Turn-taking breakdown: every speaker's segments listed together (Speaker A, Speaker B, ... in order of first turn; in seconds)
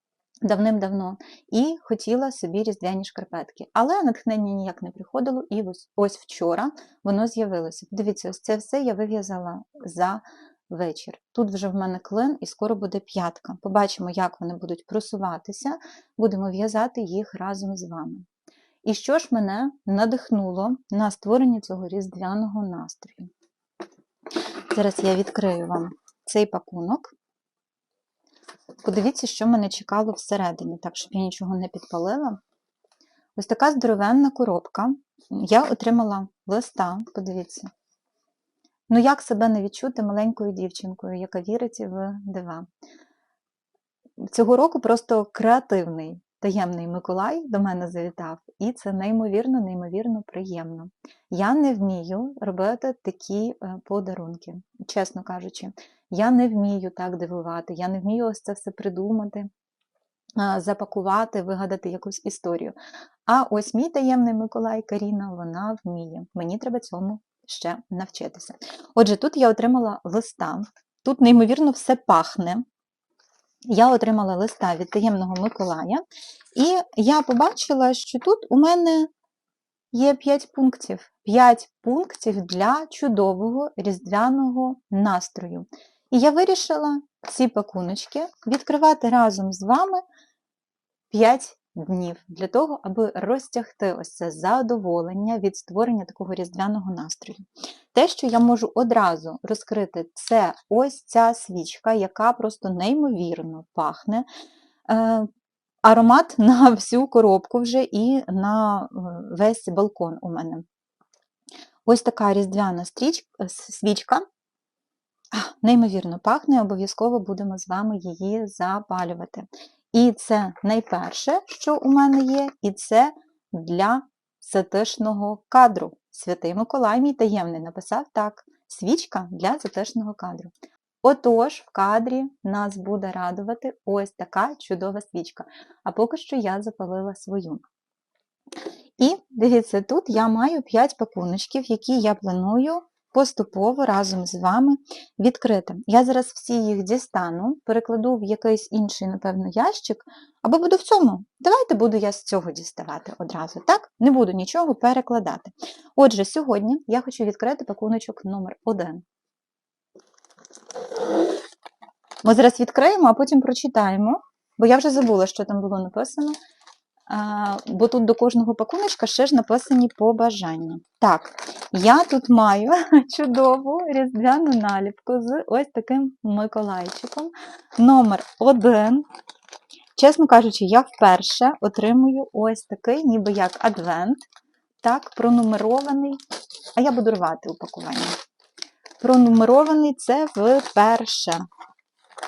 Speaker A: 0.4-18.3, 18.8-23.3, 24.7-27.1, 28.8-32.4, 33.4-37.7, 38.9-42.7, 44.2-59.5, 60.4-72.7, 73.7-79.1, 79.9-90.0, 91.1-104.3, 104.9-105.3, 105.8-110.7, 111.8-114.2, 115.3-137.6, 139.0-159.0, 162.2-166.4, 167.1-179.1, 180.0-184.2, 184.8-186.2, 186.7-188.2, 189.0-191.4